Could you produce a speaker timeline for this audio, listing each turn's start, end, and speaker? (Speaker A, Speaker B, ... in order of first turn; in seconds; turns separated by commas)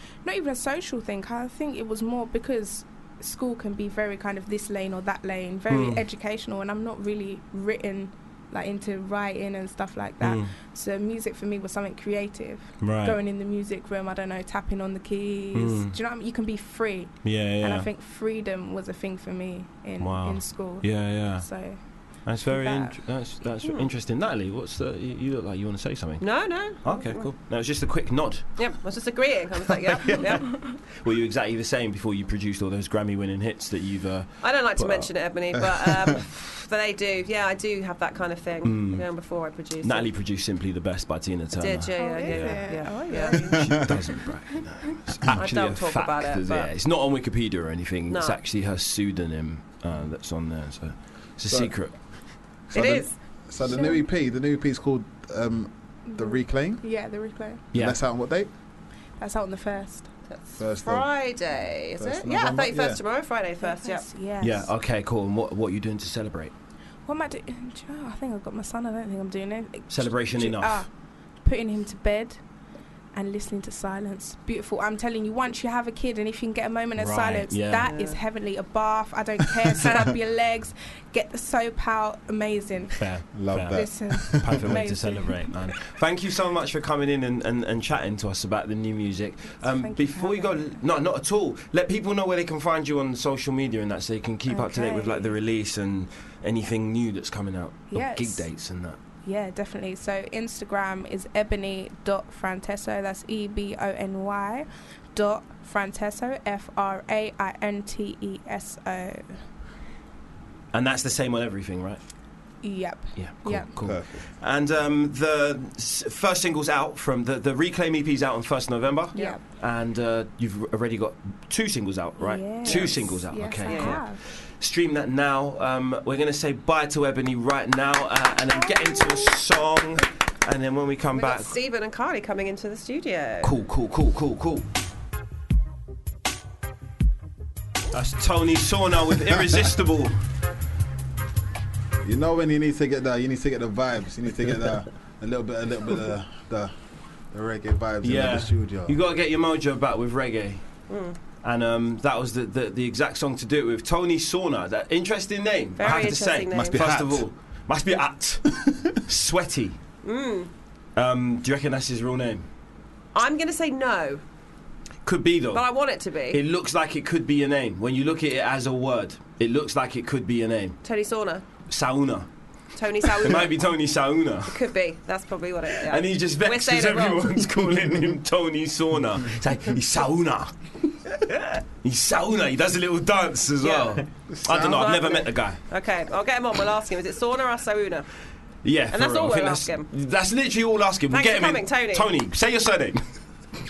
Speaker A: 0.2-23.2, Speaker B: 5.7-6.0, Speaker B: 10.2-10.5, Speaker B: 12.8-13.2, Speaker B: 15.5-16.0, Speaker B: 17.2-17.9, Speaker B: 20.0-21.6, Speaker B: 22.2-28.7, Speaker C: 26.2-27.3, Speaker C: 28.6-30.5, Speaker B: 30.0-35.1, Speaker C: 34.4-40.1, Speaker B: 38.6-39.1, Speaker B: 39.8-52.0, Speaker C: 41.6-43.7, Speaker A: 42.0-43.8, Speaker C: 45.3-46.7, Speaker C: 48.1-48.4, Speaker D: 51.5-51.8, Speaker D: 52.7-56.8, Speaker C: 52.7-53.1, Speaker A: 53.7-54.0, Speaker A: 56.1-57.6, Speaker B: 57.7-58.0, Speaker D: 57.7-58.5, Speaker A: 59.2-60.1, Speaker C: 60.3-64.0, Speaker D: 60.6-61.1, Speaker D: 62.0-63.0, Speaker A: 63.6-64.7, Speaker B: 64.4-66.5, Speaker A: 67.0-70.9, Speaker B: 69.9-70.9, Speaker A: 71.4-72.4, Speaker A: 73.1-85.7, Speaker B: 77.0-77.9, Speaker C: 77.9-78.2, Speaker B: 83.0-99.0, Speaker D: 83.3-84.8, Speaker A: 89.6-90.8, Speaker A: 94.5-95.4, Speaker A: 97.9-98.6, Speaker A: 99.2-109.4, Speaker B: 110.7-112.0, Speaker A: 112.6-113.7, Speaker B: 113.2-131.5, Speaker D: 113.8-114.2, Speaker A: 119.1-119.5, Speaker A: 122.2-124.2, Speaker C: 122.7-123.0, Speaker C: 123.7-124.0, Speaker A: 128.7-129.2, Speaker C: 131.1-133.5, Speaker B: 133.4-134.7, Speaker B: 137.9-140.2, Speaker D: 142.0-146.7, Speaker D: 147.3-149.0, Speaker B: 148.0-150.8, Speaker C: 150.9-151.2, Speaker B: 151.4-159.8, Speaker C: 155.8-156.8, Speaker D: 156.5-157.3, Speaker C: 160.0-160.5, Speaker B: 161.0-162.5, Speaker C: 163.1-164.2, Speaker B: 165.1-165.7, Speaker C: 165.5-166.4, Speaker B: 166.3-170.8, Speaker C: 170.8-171.4, Speaker B: 171.7-172.3, Speaker C: 172.8-173.6, Speaker B: 173.0-174.6, Speaker C: 174.5-177.3, Speaker B: 175.9-185.6, Speaker C: 183.6-188.1, Speaker D: 184.3-184.8, Speaker B: 188.6-193.0, Speaker C: 188.9-189.9, Speaker C: 191.1-192.1